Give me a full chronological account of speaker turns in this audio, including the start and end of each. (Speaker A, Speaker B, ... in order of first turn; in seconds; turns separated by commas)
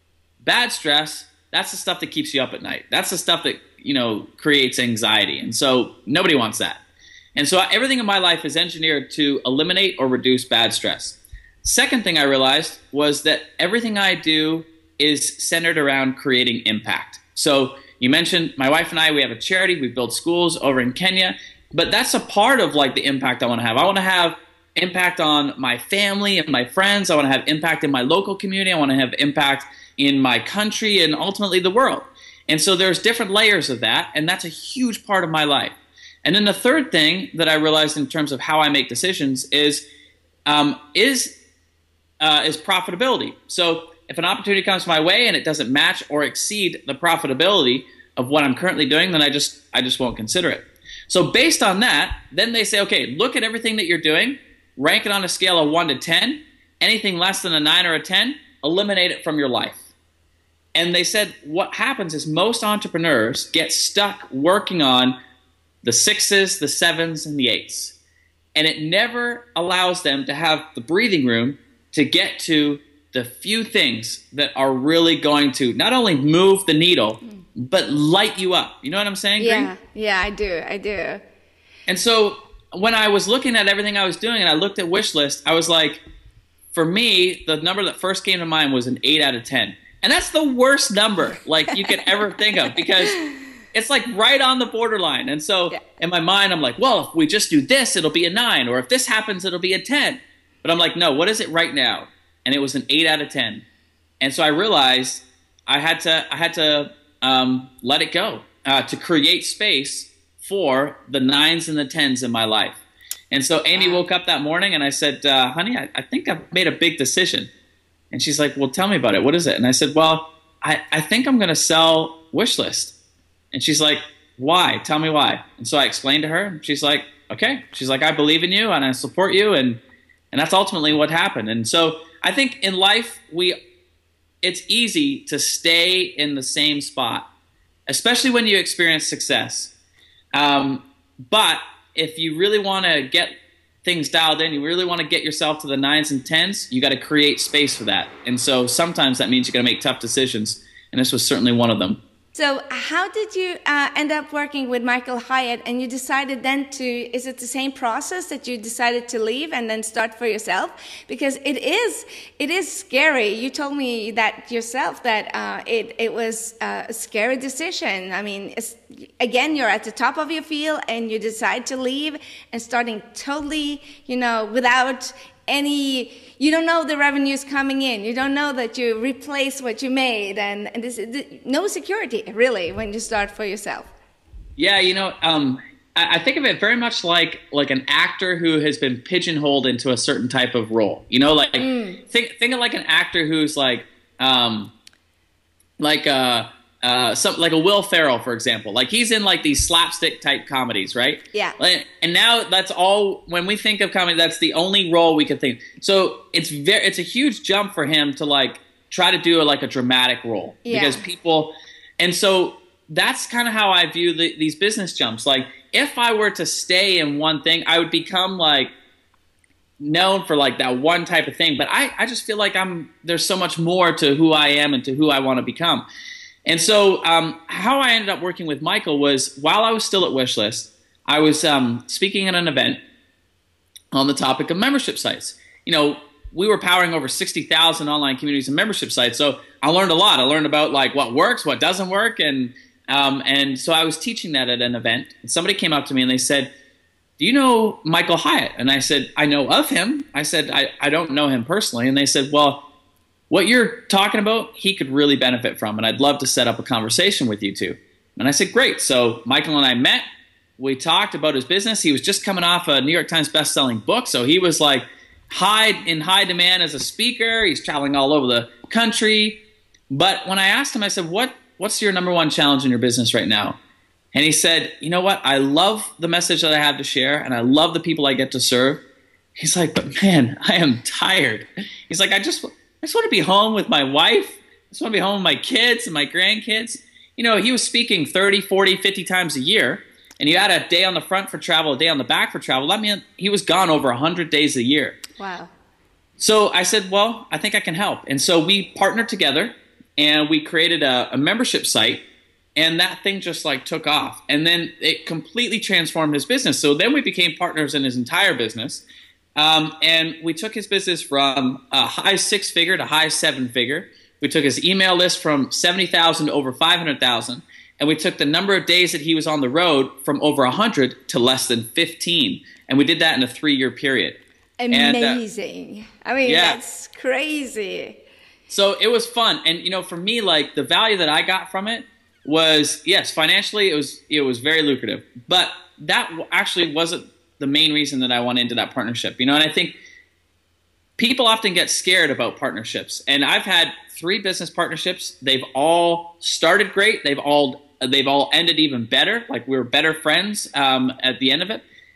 Speaker A: 0.4-6.8, Speaker A: 7.3-39.8, Speaker A: 40.5-41.4, Speaker A: 42.2-59.8, Speaker A: 60.8-65.2, Speaker A: 65.8-68.0, Speaker A: 68.5-79.7, Speaker B: 79.4-81.2, Speaker A: 81.9-86.0, Speaker A: 86.7-93.2, Speaker A: 93.7-103.7, Speaker A: 104.2-112.8, Speaker A: 113.3-117.5, Speaker B: 113.7-114.0, Speaker A: 118.1-123.0, Speaker A: 123.5-129.8, Speaker A: 130.3-133.6, Speaker A: 134.4-137.3, Speaker A: 137.9-139.7, Speaker A: 140.3-143.3, Speaker A: 143.8-152.0, Speaker B: 152.3-183.9, Speaker A: 184.6-194.7, Speaker B: 191.6-192.0, Speaker A: 195.8-218.7, Speaker B: 210.7-211.1, Speaker A: 219.8-225.9, Speaker A: 226.5-232.8, Speaker A: 233.9-246.5, Speaker A: 247.2-252.7, Speaker A: 253.3-260.0, Speaker A: 260.6-273.6, Speaker A: 274.1-278.8, Speaker A: 279.4-295.0, Speaker B: 295.2-295.5, Speaker A: 296.2-302.1, Speaker A: 302.6-308.8, Speaker A: 309.4-325.2, Speaker B: 324.6-328.0, Speaker A: 326.2-326.6, Speaker A: 328.5-339.8, Speaker A: 341.0-351.6